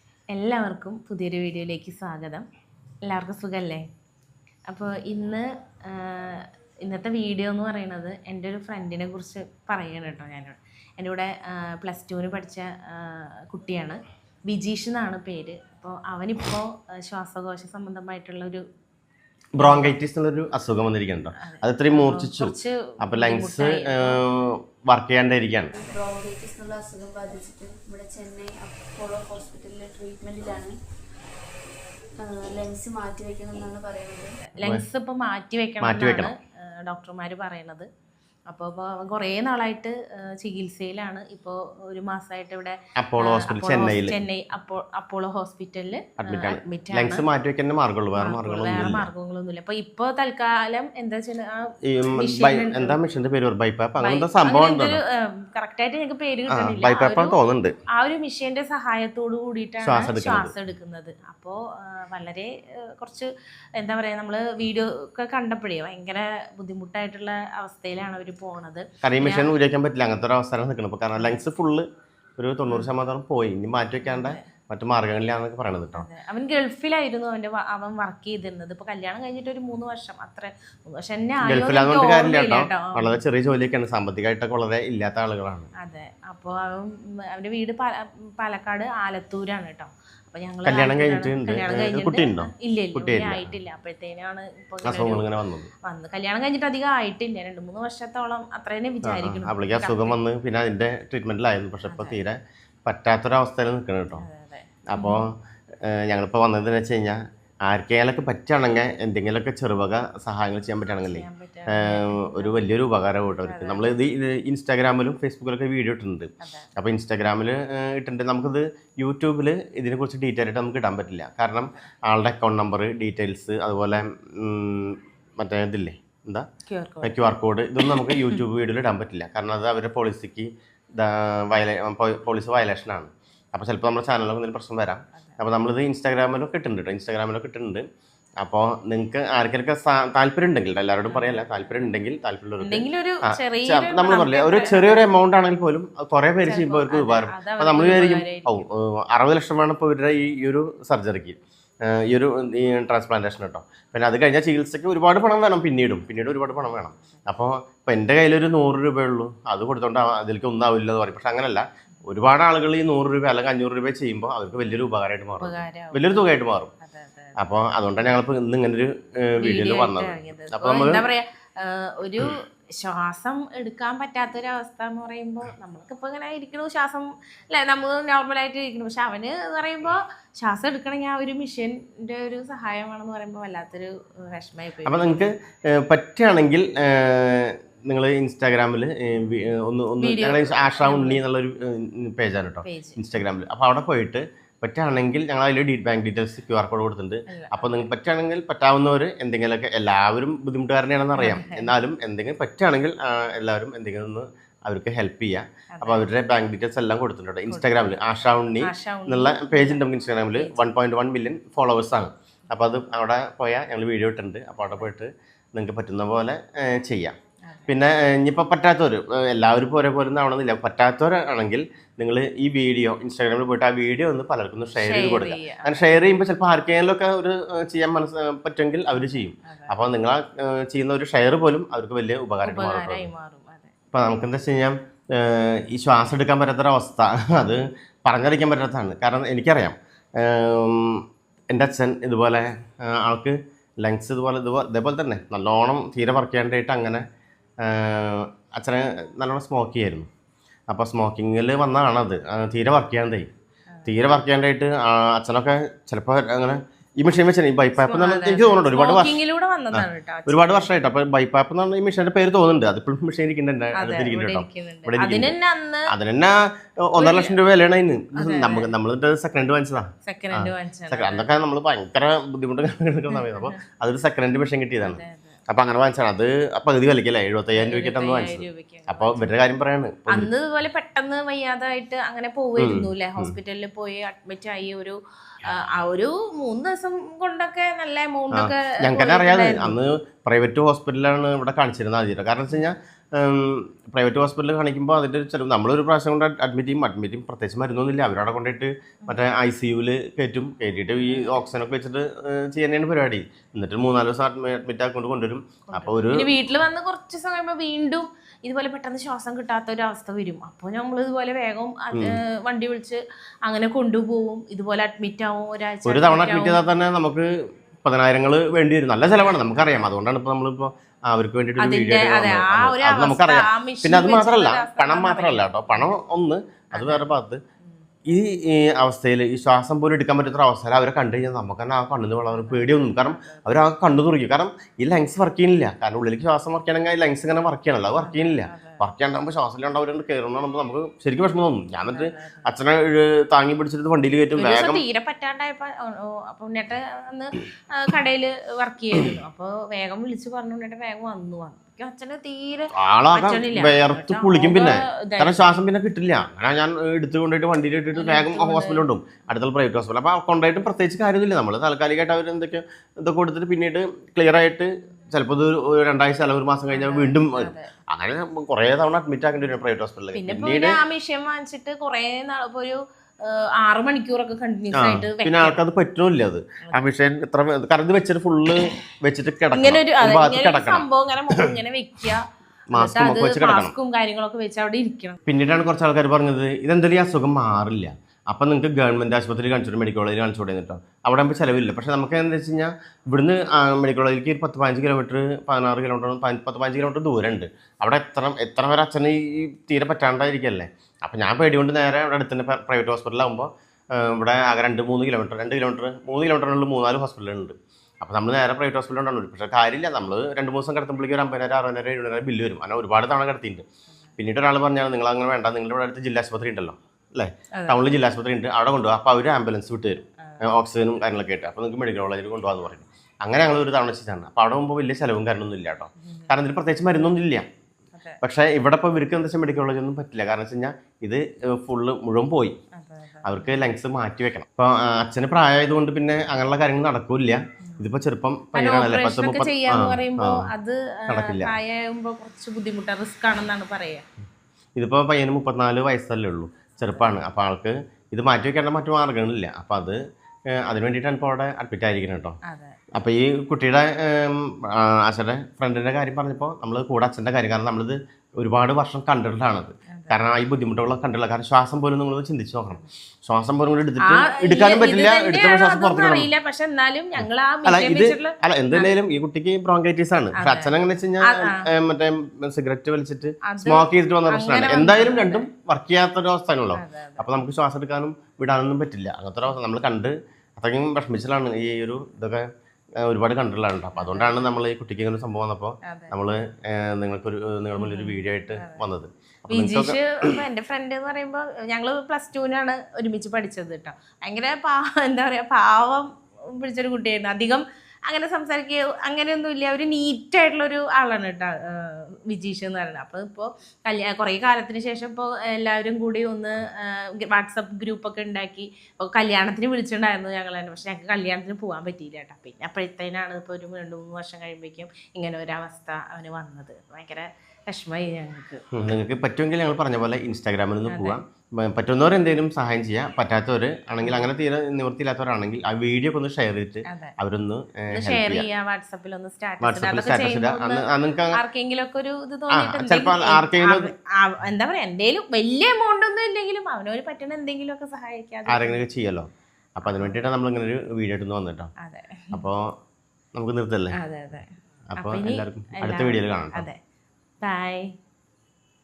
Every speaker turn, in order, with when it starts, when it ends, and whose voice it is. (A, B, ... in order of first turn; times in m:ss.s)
0:00.3-0:02.4 A
0:03.0-0:03.8 A
0:04.7-0:18.6 A
0:19.6-0:25.7 B
0:19.6-0:20.0 A
0:21.4-0:24.2 A
0:25.7-0:30.8 C
0:32.2-0:34.4 C
0:34.4-0:37.9 A
0:35.8-0:36.3 B
0:38.5-0:47.2 A
0:43.0-0:44.2 B
0:46.2-0:49.1 B
0:48.2-0:53.0 A
0:51.8-0:55.0 B
0:54.0-0:57.4 A
0:56.5-0:57.8 B
0:57.9-1:09.5 A
0:59.8-1:00.5 B
1:09.0-1:11.9 B
1:12.4-1:16.1 B
1:14.0-1:14.4 A
1:16.0-1:23.2 A
1:21.4-1:25.7 B
1:25.8-1:35.2 A
1:30.6-1:33.6 B
1:34.8-1:35.7 B
1:35.8-1:40.2 A
1:39.0-1:44.3 B
1:41.9-1:42.2 A
1:44.2-1:45.2 A
1:44.9-2:06.5 B
1:51.0-1:52.7 A
1:53.4-1:54.0 A
1:56.4-1:56.7 A
2:06.7-2:07.2 A
2:07.0-2:17.8 B
2:08.0-2:08.4 A
2:18.4-2:46.7 B
2:21.1-2:21.5 A
2:22.6-2:25.0 A
2:26.4-2:28.6 A
2:36.5-2:37.2 A
2:45.4-2:47.4 A
2:47.4-2:51.0 B
2:49.4-3:05.2 A
3:04.8-3:37.2 B
3:10.0-3:11.2 A
3:12.6-3:13.0 A
3:17.3-3:17.9 A
3:21.2-3:21.7 A
3:25.7-3:26.0 A
3:27.5-3:29.8 A
3:30.4-3:30.7 A
3:37.5-3:37.7 A
3:37.7-3:53.1 B
3:44.8-3:45.9 A
3:49.5-3:49.7 A
3:52.4-3:53.7 A
3:53.9-4:07.0 B
4:07.6-4:10.1 B
4:10.7-4:13.3 B
4:13.8-4:19.2 B
4:17.8-4:20.7 A
4:19.7-4:25.3 B
4:23.8-4:25.9 A
4:25.9-4:40.3 B
4:27.0-4:27.4 A
4:28.2-4:28.7 A
4:30.0-4:31.2 A
4:33.1-4:33.6 A
4:34.8-4:35.4 A
4:37.6-4:39.3 A
4:40.1-4:49.8 A
4:42.6-4:43.4 B
4:48.3-5:06.3 B
5:01.0-5:01.4 A
5:05.7-5:16.6 A
5:15.9-5:27.4 B
5:19.1-5:19.9 A
5:21.6-5:25.9 A
5:26.7-5:27.8 A
5:28.1-5:44.8 B
5:32.3-5:33.5 A
5:38.0-5:38.8 A
5:41.9-5:42.5 A
5:44.4-5:55.6 A
5:52.8-6:10.8 B
5:57.9-5:58.9 A
6:06.7-6:07.7 A
6:10.2-6:15.6 A
6:14.7-6:21.6 B
6:19.5-6:25.2 A
6:22.7-6:23.7 B
6:25.3-6:53.6 B
6:54.2-7:07.4 B
6:57.5-6:57.8 A
7:06.0-7:06.3 A
7:08.2-7:12.6 B
7:12.8-7:13.7 A
7:13.2-7:20.5 B
7:18.6-7:24.0 A
7:21.1-7:21.6 B
7:24.8-7:30.0 B
7:26.9-7:27.1 A
7:30.5-7:32.4 B
7:32.4-7:32.8 A
7:33.0-7:46.3 B
7:39.9-7:40.2 A
7:44.1-7:48.9 A
7:47.2-8:02.5 B
7:50.4-7:51.7 A
7:53.5-7:55.5 A
7:56.7-7:57.4 A
8:03.0-8:10.4 B
8:04.0-8:04.5 A
8:05.9-8:06.2 A
8:07.8-8:08.8 A
8:09.5-8:38.6 A
8:38.7-8:48.5 B
8:40.9-8:41.2 A
8:44.0-8:44.3 A
8:46.9-8:47.1 A
8:47.9-8:58.8 A
8:49.6-8:51.4 B
8:52.5-8:53.9 B
8:58.5-9:01.7 B
8:59.8-9:00.2 A
9:01.8-9:02.4 A
9:02.3-9:02.7 B
9:03.4-9:04.0 B
9:04.0-9:06.8 A
9:04.9-9:06.7 B
9:07.4-9:07.9 A